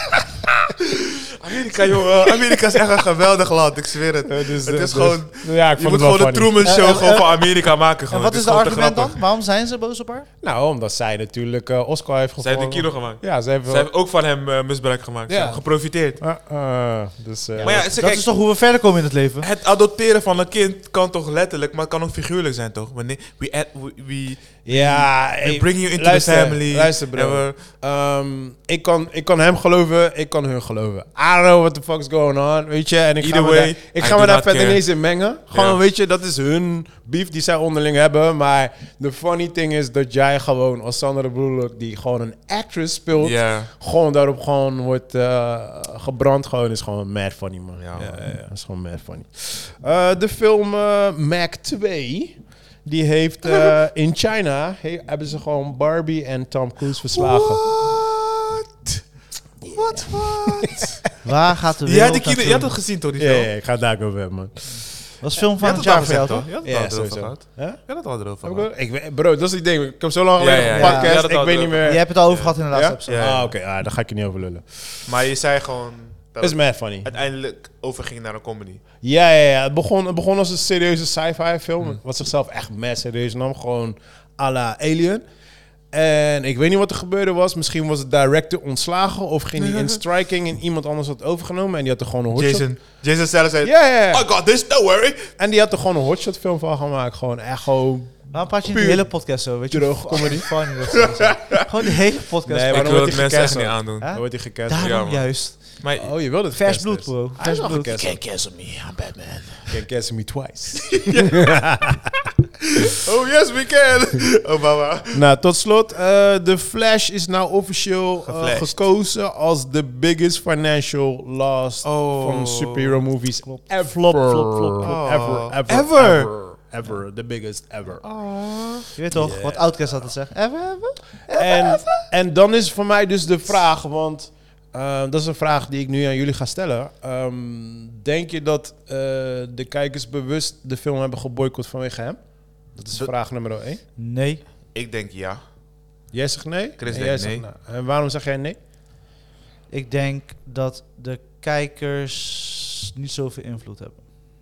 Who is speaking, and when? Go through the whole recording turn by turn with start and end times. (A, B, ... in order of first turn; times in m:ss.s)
0:01.4-0:09.2 A
0:04.3-0:06.6 B
0:06.6-0:10.3 C
0:10.4-0:13.9 B
0:12.4-0:16.2 A
0:15.3-0:17.9 B
0:17.6-0:19.5 C
0:17.6-0:18.4 A
0:19.4-0:27.6 A
0:24.6-0:57.7 B
0:33.2-0:35.8 A
0:43.2-0:43.7 A
0:47.8-0:48.3 A
0:57.1-0:58.9 A
0:59.6-1:00.8 B
0:59.7-1:01.1 A
1:01.2-1:02.7 C
1:01.8-1:03.5 A
1:03.2-1:05.0 B
1:05.0-1:06.5 C
1:05.6-1:08.7 A
1:06.6-1:15.0 B
1:10.4-1:13.6 A
1:10.7-1:13.2 C
1:15.0-1:18.8 A
1:16.4-1:17.1 B
1:19.0-1:25.2 B
1:25.9-1:32.8 B
1:29.6-1:30.0 A
1:32.3-1:35.3 A
1:33.6-1:34.3 B
1:35.4-1:40.5 B
1:38.3-1:43.4 C
1:41.2-1:41.5 A
1:42.5-1:45.0 B
1:42.7-1:46.3 A
1:44.0-1:45.8 C
1:46.0-1:48.2 B
1:46.5-1:48.0 C
1:47.7-1:49.8 A
1:49.7-1:52.1 B
1:50.9-1:51.7 A
1:52.9-1:55.2 A
1:55.1-2:08.2 B
1:58.2-1:58.9 A
2:01.8-2:03.0 A
2:03.4-2:05.0 C
2:04.8-2:06.6 A
2:08.0-2:08.9 A
2:09.0-2:11.8 C
2:09.1-2:10.1 B
2:11.3-2:23.8 B
2:24.0-2:24.4 C
2:24.7-2:25.4 A
2:26.1-2:28.6 B
2:26.8-2:27.5 A
2:29.7-2:34.0 C